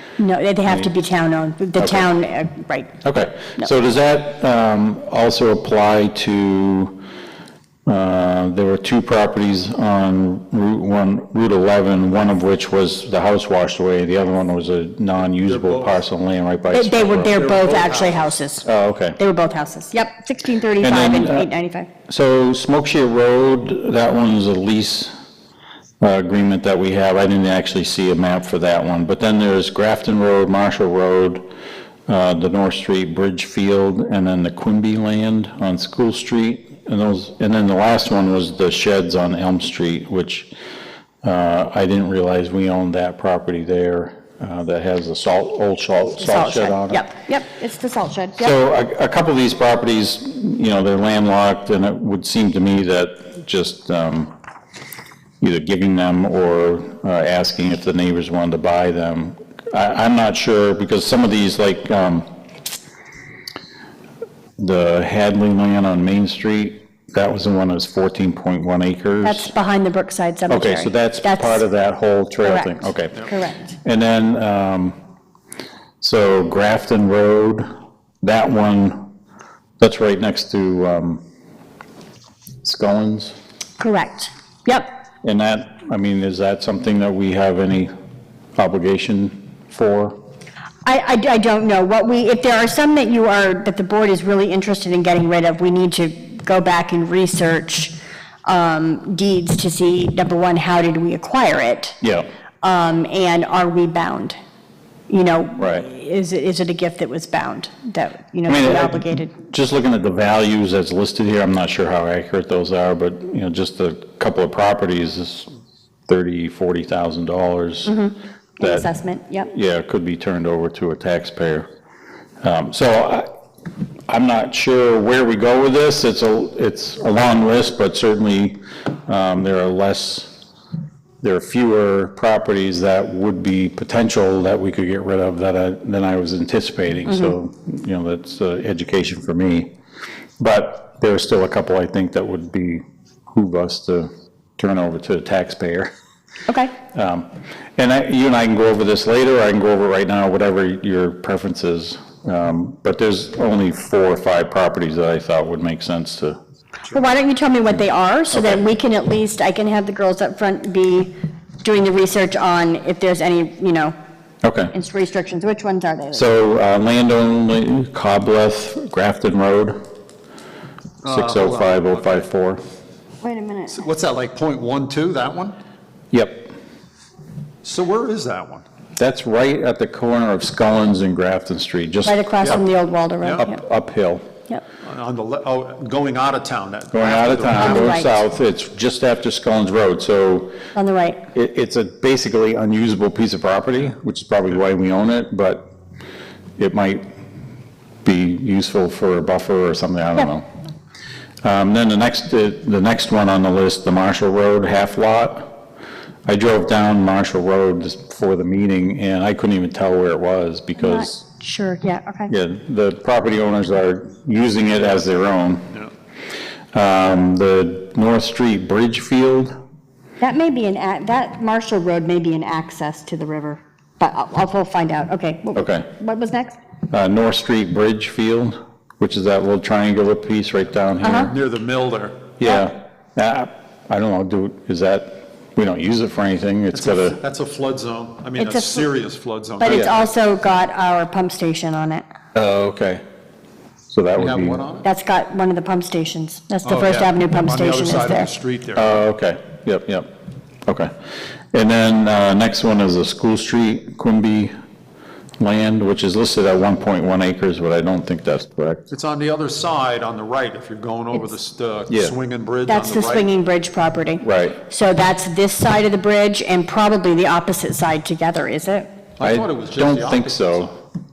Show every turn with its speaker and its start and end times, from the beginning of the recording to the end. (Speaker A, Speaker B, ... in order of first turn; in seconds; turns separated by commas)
Speaker A: 0.2-3.0, Speaker B: 0.6-0.9, Speaker B: 1.8-2.1, Speaker B: 3.0-7.0, Speaker B: 7.9-17.5, Speaker C: 15.4-16.0, Speaker A: 16.7-21.9, Speaker C: 17.2-18.4, Speaker B: 18.6-19.2, Speaker B: 20.8-21.5, Speaker B: 22.1-25.1, Speaker B: 26.0-31.4, Speaker B: 32.1-40.5, Speaker B: 41.2-47.0, Speaker A: 46.2-48.5, Speaker B: 48.4-54.3, Speaker B: 55.4-62.2, Speaker B: 64.6-69.5, Speaker A: 69.2-71.6, Speaker B: 70.5-73.3, Speaker A: 72.4-73.8, Speaker B: 73.8-75.0, Speaker B: 76.0-77.7, Speaker B: 78.2-79.0, Speaker B: 79.8-81.2, Speaker B: 82.6-83.3, Speaker A: 83.8-84.9, Speaker B: 85.2-87.9, Speaker B: 88.6-90.2, Speaker A: 90.8-97.9, Speaker A: 98.5-102.0, Speaker B: 102.0-102.2, Speaker A: 102.6-104.4, Speaker A: 105.1-109.3, Speaker B: 105.6-105.9, Speaker B: 108.5-115.5, Speaker B: 116.1-117.9, Speaker A: 117.8-119.5, Speaker B: 118.6-118.9, Speaker B: 119.4-121.7, Speaker B: 122.4-123.2, Speaker B: 124.1-130.3, Speaker B: 131.2-139.7, Speaker A: 137.1-137.3, Speaker B: 140.4-145.9, Speaker A: 146.5-146.8, Speaker B: 146.9-156.4, Speaker A: 156.9-163.9, Speaker B: 158.3-158.6, Speaker B: 164.4-164.7, Speaker A: 164.7-166.3, Speaker B: 166.1-169.8, Speaker C: 171.0-172.2, Speaker B: 171.1-172.6, Speaker A: 173.2-173.8, Speaker C: 173.7-175.6, Speaker B: 176.1-176.5, Speaker C: 177.6-178.7, Speaker B: 179.0-182.6, Speaker A: 182.0-183.6, Speaker B: 183.4-184.2, Speaker C: 184.8-188.1, Speaker B: 186.9-190.6, Speaker A: 187.5-188.2, Speaker A: 190.8-191.2, Speaker B: 191.3-195.7, Speaker B: 196.6-197.1, Speaker B: 198.0-200.4, Speaker B: 201.4-205.6, Speaker B: 206.2-211.2, Speaker A: 210.8-212.3, Speaker B: 212.3-215.8, Speaker B: 216.7-219.5, Speaker A: 220.2-226.6, Speaker B: 225.5-225.9, Speaker B: 226.9-231.4, Speaker A: 231.0-231.3, Speaker C: 231.3-232.3, Speaker B: 232.4-237.2, Speaker A: 232.4-232.7, Speaker C: 236.7-239.9, Speaker A: 238.4-238.9, Speaker A: 239.6-242.1, Speaker B: 239.6-239.9, Speaker B: 242.3-243.0, Speaker B: 243.9-244.6, Speaker C: 244.2-244.9, Speaker A: 244.8-248.3, Speaker C: 246.6-249.0, Speaker B: 248.8-250.1, Speaker B: 250.7-250.9, Speaker B: 251.5-254.5, Speaker B: 255.4-258.8, Speaker C: 258.9-263.3, Speaker B: 261.9-262.1, Speaker A: 262.7-268.9, Speaker B: 264.2-264.6, Speaker C: 269.2-270.7, Speaker B: 269.2-270.8